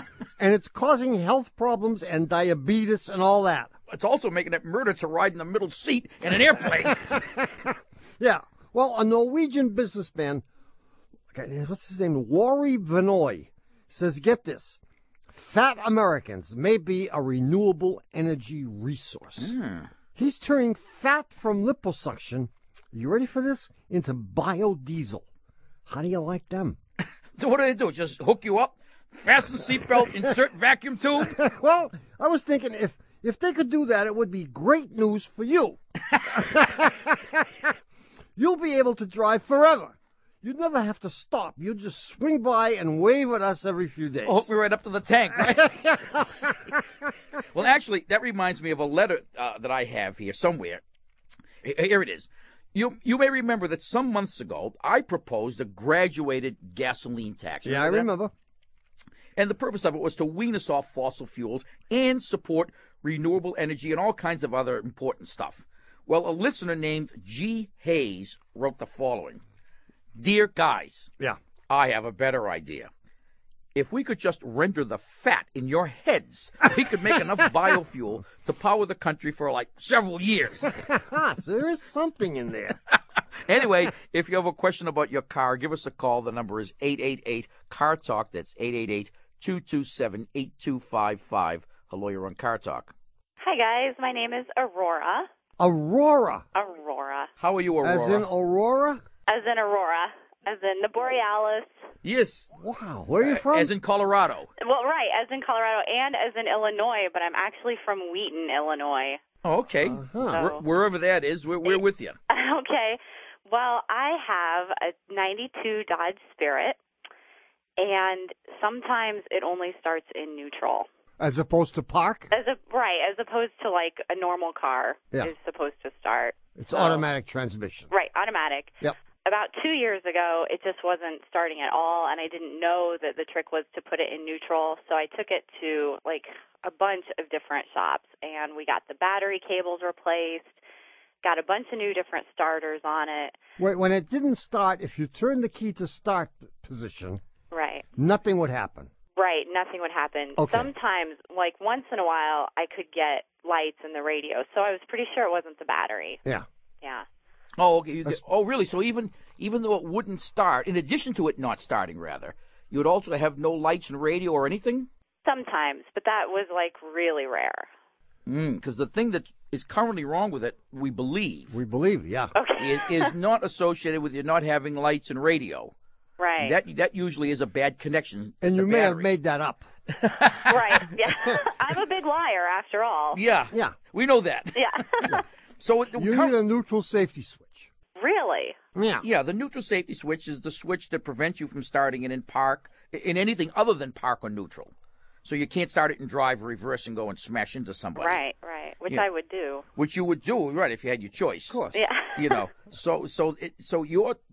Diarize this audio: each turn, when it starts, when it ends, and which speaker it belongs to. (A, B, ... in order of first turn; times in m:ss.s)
0:00.4-0:03.7 A
0:03.9-0:07.0 B
0:06.8-0:10.4 A
0:11.3-0:14.8 A
0:15.3-0:19.5 A
0:19.4-0:19.9 B
0:20.2-0:25.2 A
0:25.9-0:26.8 A
0:27.4-0:31.4 B
0:31.2-0:37.7 A
0:38.4-0:44.5 A
0:44.2-0:46.5 B
0:45.5-0:46.8 A
0:47.5-0:50.8 B
0:51.6-0:58.1 B
0:57.6-0:58.3 A
0:59.4-1:09.4 B
1:10.1-1:11.1 B
1:11.7-1:12.9 B
1:13.7-1:20.7 B
1:20.8-1:22.8 A
1:23.4-1:32.9 B
1:33.4-1:35.3 C
1:35.6-1:36.4 A
1:36.5-1:37.3 C
1:37.4-1:38.3 B
1:37.8-1:39.0 A
1:39.3-1:41.7 C
1:42.0-1:42.5 B
1:42.6-1:43.7 A
1:43.2-1:44.5 B
1:44.6-1:49.2 C
1:49.4-1:52.2 B
1:49.8-1:50.4 A
1:50.3-1:50.6 C
1:52.3-1:56.8 C
1:57.8-2:00.9 C
2:01.2-2:02.3 A
2:02.3-2:07.0 C
2:06.6-2:07.9 A
2:07.9-2:20.5 C
2:21.2-2:23.4 C
2:23.6-2:27.2 A
2:27.5-2:27.8 C
2:28.0-2:28.9 A
2:29.2-2:36.2 C
2:30.4-2:30.7 A
2:37.6-2:44.9 B
2:45.2-2:47.7 C
2:48.2-2:51.6 B
2:51.5-2:52.3 A
2:52.3-2:53.1 C
2:52.6-2:55.7 B
2:56.2-2:56.6 C
2:56.4-2:59.1 B
2:58.4-2:59.7 A
3:00.0-3:01.0 B
3:00.5-3:03.2 C
3:03.1-3:06.3 B
3:04.5-3:05.1 C
3:06.0-3:07.7 A
3:08.0-3:08.6 C
3:08.7-3:09.0 A
3:09.0-3:14.7 B
3:15.2-3:18.2 B
3:18.0-3:19.6 C
3:19.7-3:21.6 B
3:21.5-3:21.8 A
3:21.7-3:22.4 C
3:22.1-3:24.2 B